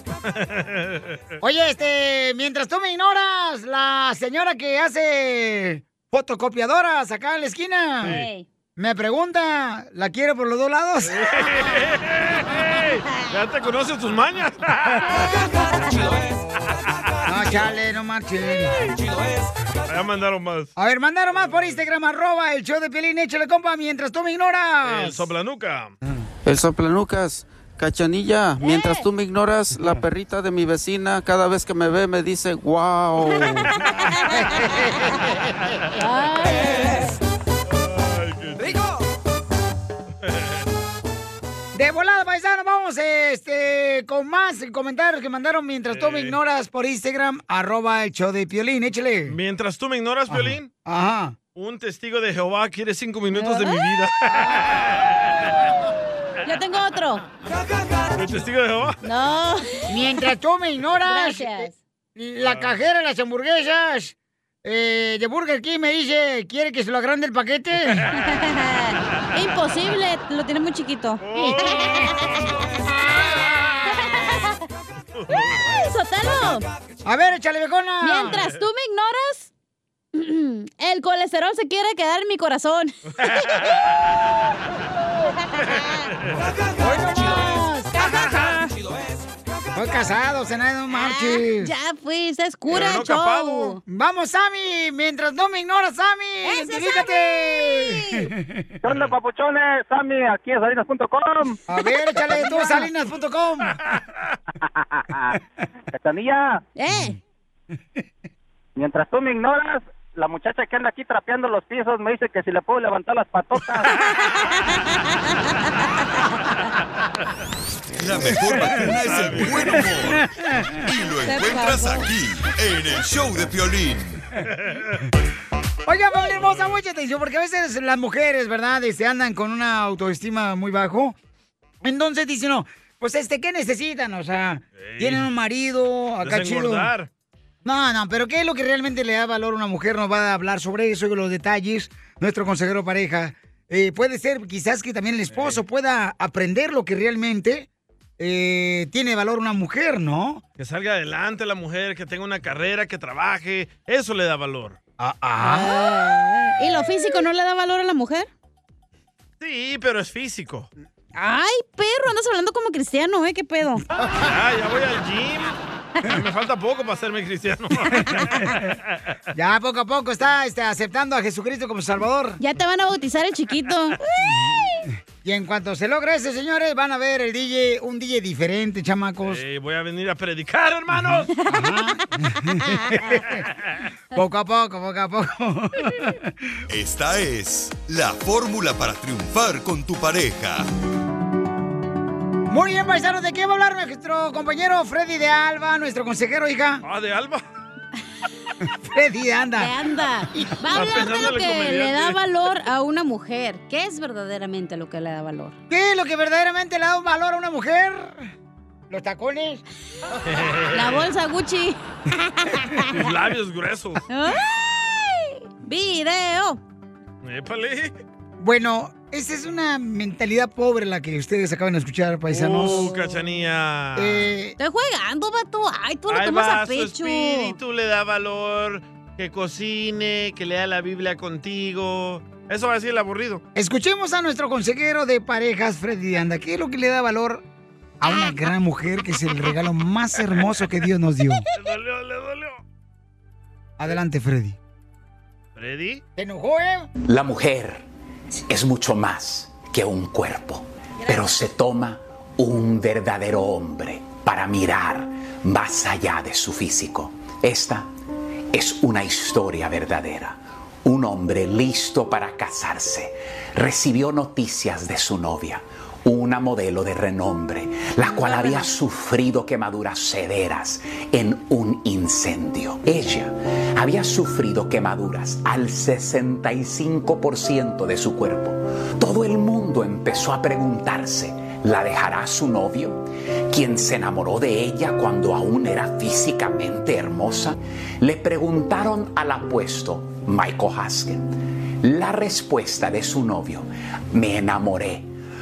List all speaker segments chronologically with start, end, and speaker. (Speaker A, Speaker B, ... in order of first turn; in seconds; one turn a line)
Speaker A: 0.2-1.2
Speaker B: 1.4-8.2
Speaker C: 8.0-8.4
Speaker B: 8.8-11.2
Speaker A: 11.1-15.4
Speaker A: 16.7-17.7
Speaker B: 17.2-18.8
Speaker A: 19.9-20.7
Speaker B: 20.8-25.3
Speaker A: 21.4-21.8
Speaker A: 24.8-25.9
Speaker D: 26.4-33.7
Speaker C: 28.6-29.0
Speaker B: 34.3-35.6
Speaker C: 36.0-37.2
Speaker A: 37.7-38.8
Speaker A: 40.2-40.6
Speaker B: 41.7-49.4
Speaker A: 45.9-46.4
Speaker A: 49.3-50.7
Speaker B: 50.3-51.4
Speaker A: 51.5-55.4
Speaker C: 53.3-53.9
Speaker C: 56.4-57.2
Speaker A: 58.1-59.0
Speaker C: 59.0-59.9
Speaker B: 59.9-68.1
Speaker C: 61.0-61.8
Speaker A: 62.4-62.7
Speaker C: 68.2-72.4
Speaker A: 71.2-72.5
Speaker C: 73.8-74.6
Speaker A: 75.1-75.7
Speaker C: 75.5-76.7
Speaker B: 77.0-78.4
Speaker C: 78.0-79.5
Speaker A: 78.3-78.6
Speaker C: 80.1-83.5
Speaker A: 83.2-84.2
Speaker C: 85.5-86.0
Speaker A: 85.6-86.5
Speaker B: 86.8-88.3
Speaker C: 87.2-88.7
Speaker B: 89.7-91.7
Speaker C: 90.9-93.8
Speaker A: 92.7-93.8
Speaker B: 93.9-98.8
Speaker C: 96.4-98.3
Speaker E: 98.8-101.6
Speaker A: 98.9-99.1
Speaker B: 101.7-103.8
Speaker C: 101.8-102.9
Speaker E: 104.6-105.4
Speaker E: 105.9-106.6
Speaker C: 106.8-107.2
Speaker B: 106.9-107.2
Speaker E: 108.8-113.9
Speaker C: 113.9-116.1
Speaker F: 118.0-124.2
Speaker A: 118.8-119.9
Speaker C: 121.2-122.1
Speaker A: 124.5-125.0
Speaker B: 125.9-131.2
Speaker B: 131.8-136.9
Speaker A: 134.8-135.3
Speaker A: 136.2-137.1
Speaker B: 137.6-147.7
Speaker A: 145.3-145.6
Speaker B: 148.2-150.4
Speaker A: 150.6-154.8
Speaker B: 155.0-155.7
Speaker C: 155.4-158.3
Speaker A: 159.4-160.7
Speaker C: 161.1-163.8
Speaker A: 164.2-168.5
Speaker B: 168.0-168.7
Speaker C: 168.0-168.3
Speaker B: 169.3-172.4
Speaker C: 172.4-174.5
Speaker B: 174.2-179.4
Speaker A: 179.2-181.3
Speaker B: 181.2-183.4
Speaker C: 181.4-181.9
Speaker B: 184.1-186.3
Speaker F: 186.7-190.7
Speaker B: 192.5-196.8
Speaker A: 196.8-197.4
Speaker B: 198.6-199.7
Speaker C: 199.6-205.5
Speaker A: 200.7-202.2
Speaker B: 205.7-208.3
Speaker B: 208.9-209.6
Speaker A: 210.3-211.1
Speaker C: 210.7-213.0
Speaker A: 212.9-214.0
Speaker C: 214.1-216.6
Speaker A: 217.2-217.9
Speaker B: 218.4-222.9
Speaker A: 222.3-224.3
Speaker B: 223.9-224.6
Speaker C: 224.6-227.6
Speaker A: 226.1-233.4
Speaker B: 233.5-237.4
Speaker B: 238.0-241.4
Speaker A: 241.5-242.6
Speaker B: 243.8-244.6
Speaker A: 245.6-246.0
Speaker B: 246.2-246.9
Speaker G: 247.1-247.8
Speaker G: 248.5-257.9
Speaker G: 258.5-291.3
Speaker C: 268.0-268.7
Speaker G: 291.8-295.1